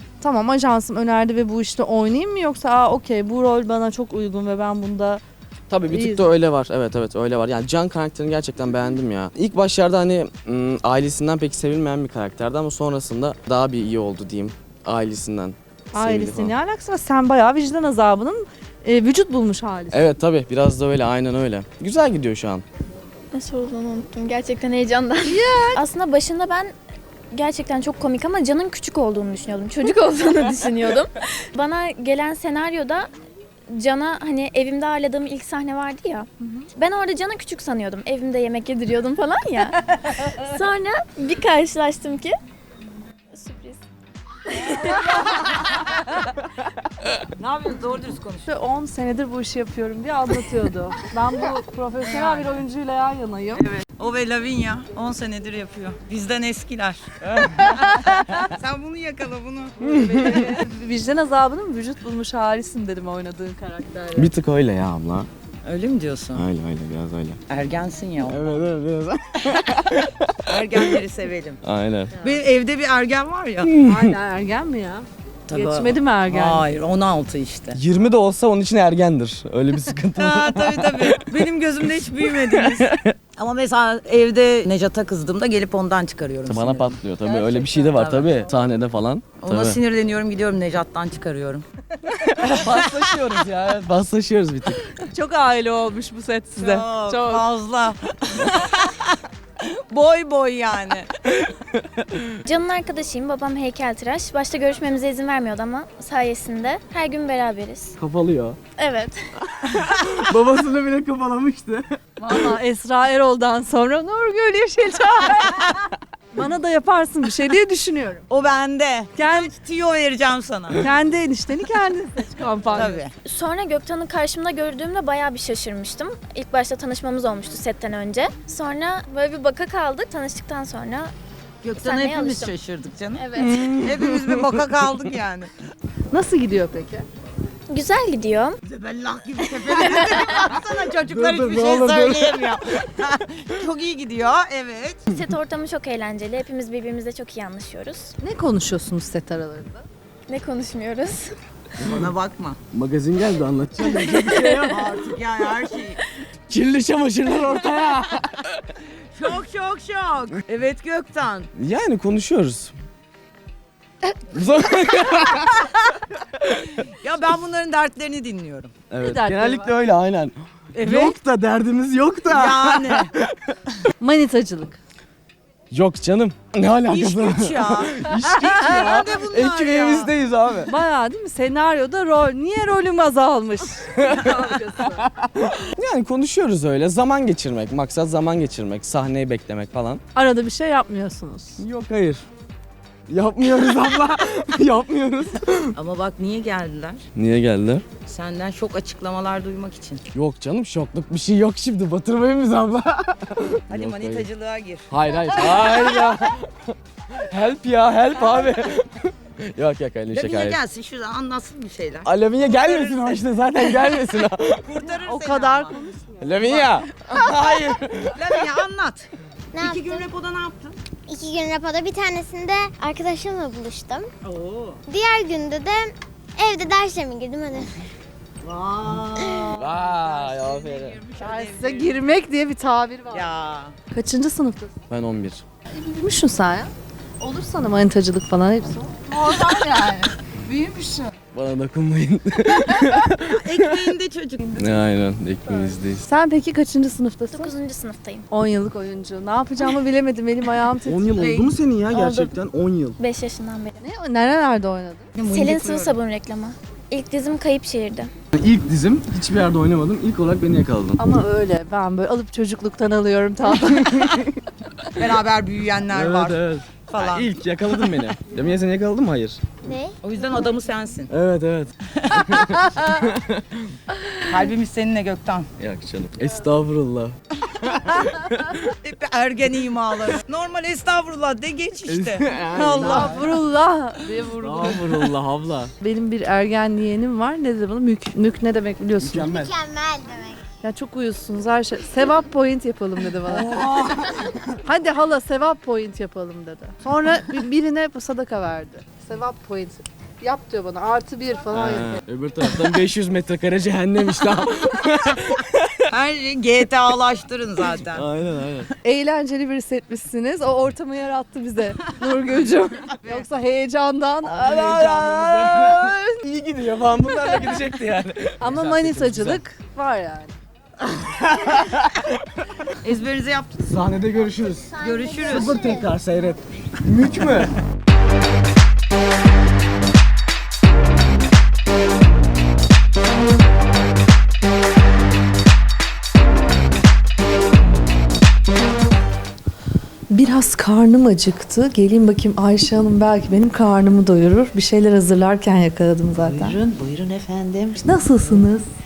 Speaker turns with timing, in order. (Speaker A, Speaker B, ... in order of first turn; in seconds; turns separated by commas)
Speaker A: 0.2-5.2, Speaker B: 5.7-16.5, Speaker A: 5.9-6.3, Speaker A: 15.9-20.1, Speaker B: 19.9-22.6, Speaker C: 23.3-26.7, Speaker A: 25.2-25.8, Speaker C: 27.3-33.1, Speaker C: 33.7-42.3, Speaker A: 36.4-36.7, Speaker C: 43.4-43.8, Speaker C: 44.5-45.9, Speaker D: 47.3-48.5, Speaker A: 48.5-53.7, Speaker D: 52.0-52.6, Speaker D: 53.6-59.8, Speaker A: 59.8-64.3, Speaker B: 60.0-60.4, Speaker B: 64.2-65.3, Speaker D: 65.7-66.4, Speaker B: 66.3-67.4, Speaker D: 67.5-68.4, Speaker B: 68.2-71.0, Speaker D: 70.5-71.6, Speaker B: 71.6-72.3, Speaker D: 72.3-73.7, Speaker B: 73.6-74.1, Speaker A: 73.8-76.7, Speaker D: 75.5-77.8, Speaker B: 77.7-83.2, Speaker D: 80.2-88.3, Speaker B: 86.5-89.8, Speaker D: 89.4-91.7, Speaker B: 92.3-94.9, Speaker A: 95.0-97.5, Speaker D: 96.6-99.2, Speaker D: 99.7-101.1, Speaker B: 101.4-102.3, Speaker C: 102.5-108.0, Speaker B: 108.0-108.6, Speaker C: 108.8-109.2, Speaker B: 109.5-111.9, Speaker A: 112.2-115.7, Speaker A: 116.3-118.2, Speaker D: 118.3-120.8, Speaker A: 119.2-119.5, Speaker A: 120.8-123.0, Speaker D: 122.8-123.1, Speaker C: 123.2-131.1, Speaker D: 131.6-135.5, Speaker C: 131.8-132.5, Speaker C: 133.2-133.6, Speaker B: 133.5-134.4, Speaker A: 136.1-137.1, Speaker C: 137.7-138.6, Speaker D: 138.6-145.1, Speaker C: 139.4-140.5, Speaker B: 141.0-142.5, Speaker C: 145.1-148.2, Speaker A: 148.2-149.8, Speaker C: 150.3-151.3, Speaker D: 151.8-152.6, Speaker B: 151.8-152.1, Speaker B: 152.7-155.2, Speaker C: 154.0-154.8, Speaker D: 154.7-156.0, Speaker B: 156.5-158.6, Speaker D: 159.2-161.5, Speaker B: 161.6-162.7, Speaker B: 164.3-165.7, Speaker B: 166.4-166.8, Speaker D: 167.0-168.7, Speaker B: 168.9-173.4, Speaker A: 169.0-169.7, Speaker D: 170.8-171.2, Speaker D: 172.3-173.1, Speaker A: 174.0-174.8, Speaker B: 175.7-180.7, Speaker D: 176.9-180.1, Speaker A: 180.7-185.1, Speaker B: 184.0-190.0, Speaker A: 190.1-191.6, Speaker B: 191.6-192.3, Speaker B: 193.1-195.8, Speaker D: 195.8-197.0, Speaker B: 197.2-197.9, Speaker D: 198.1-200.0, Speaker B: 200.1-204.3, Speaker D: 203.7-204.8, Speaker B: 204.9-210.6, Speaker D: 210.1-213.1, Speaker B: 212.0-214.8, Speaker D: 214.7-215.8, Speaker A: 214.8-216.3, Speaker B: 216.2-218.6, Speaker D: 218.2-219.1, Speaker E: 219.5-220.1, Speaker D: 219.6-220.8, Speaker E: 221.1-224.1, Speaker D: 224.3-224.8, Speaker E: 224.9-227.8, Speaker D: 228.4-231.9, Speaker E: 229.2-229.5, Speaker B: 229.5-231.1, Speaker A: 231.2-233.3, Speaker D: 233.1-233.8, Speaker A: 233.9-234.8, Speaker B: 234.9-235.4, Speaker A: 235.7-241.1, Speaker B: 241.3-244.0, Speaker D: 243.3-244.5, Speaker B: 244.6-246.1, Speaker A: 246.0-247.6, Speaker C: 247.3-248.3, Speaker A: 248.3-251.5, Speaker B: 250.8-253.0, Speaker D: 251.2-251.5, Speaker C: 251.9-252.4, Speaker C: 253.0-253.8, Speaker A: 253.8-255.1, Speaker D: 255.2-255.9, Speaker C: 255.3-258.1, Speaker B: 258.4-261.0, Speaker A: 261.0-264.3, Speaker B: 263.7-264.2, Speaker D: 265.0-267.3, Speaker B: 265.9-269.4, Speaker E: 269.6-270.5, Speaker D: 270.0-271.1, Speaker B: 271.1-273.7, Speaker D: 274.3-275.5, Speaker B: 275.6-278.6, Speaker D: 278.8-283.2, Speaker B: 281.9-283.3, Speaker A: 282.8-285.1, Speaker B: 284.4-285.7, Speaker A: 285.8-289.3, Speaker B: 289.0-289.5, Speaker E: 289.2-290.4, Speaker A: 290.6-293.5, Speaker B: 293.3-294.4, Speaker A: 294.6-302.0, Speaker B: 301.5-305.9, Speaker D: 305.9-308.1, Speaker B: 307.6-308.7, Speaker A: 308.8-316.3, Speaker B: 314.3-319.4, Speaker A: 317.1-317.6, Speaker A: 318.4-320.4, Speaker B: 320.9-322.1, Speaker D: 322.8-323.8, Speaker B: 323.6-327.6, Speaker E: 324.6-325.9, Speaker D: 324.8-325.6, Speaker A: 340.1-346.6, Speaker F: 346.1-348.5, Speaker A: 347.8-348.7